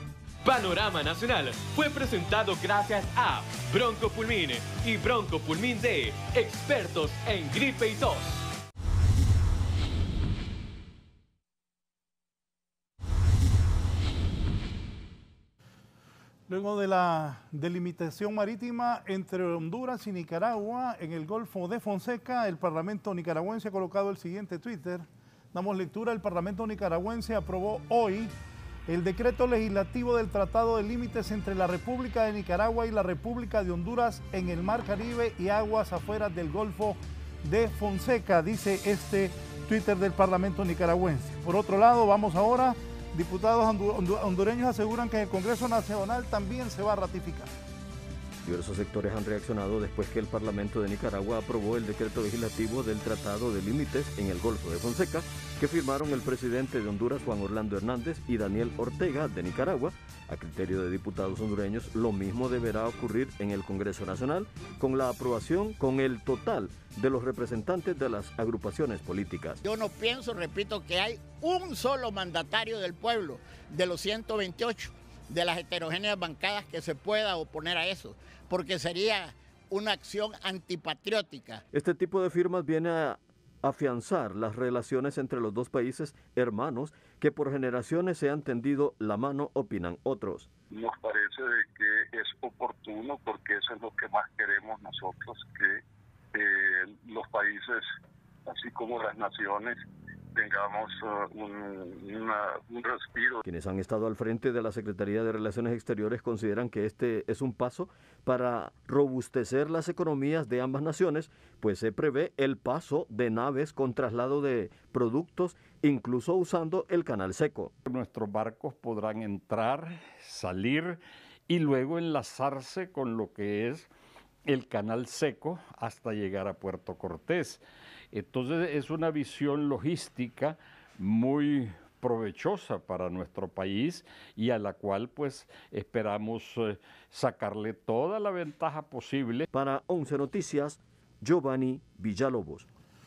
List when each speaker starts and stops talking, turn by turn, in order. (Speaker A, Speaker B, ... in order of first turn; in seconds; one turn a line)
Speaker A: 0.4-8.4
Speaker B: 16.5-28.3
Speaker B: 28.9-47.5
Speaker C: 48.4-69.6
Speaker D: 69.6-81.6
Speaker C: 81.7-90.5
Speaker E: 90.7-95.8
Speaker E: 96.3-97.8
Speaker E: 98.5-99.8
Speaker E: 100.3-103.4
Speaker C: 103.5-117.7
Speaker F: 117.8-123.9
Speaker F: 124.5-127.6
Speaker F: 128.1-139.5
Speaker C: 139.5-142.7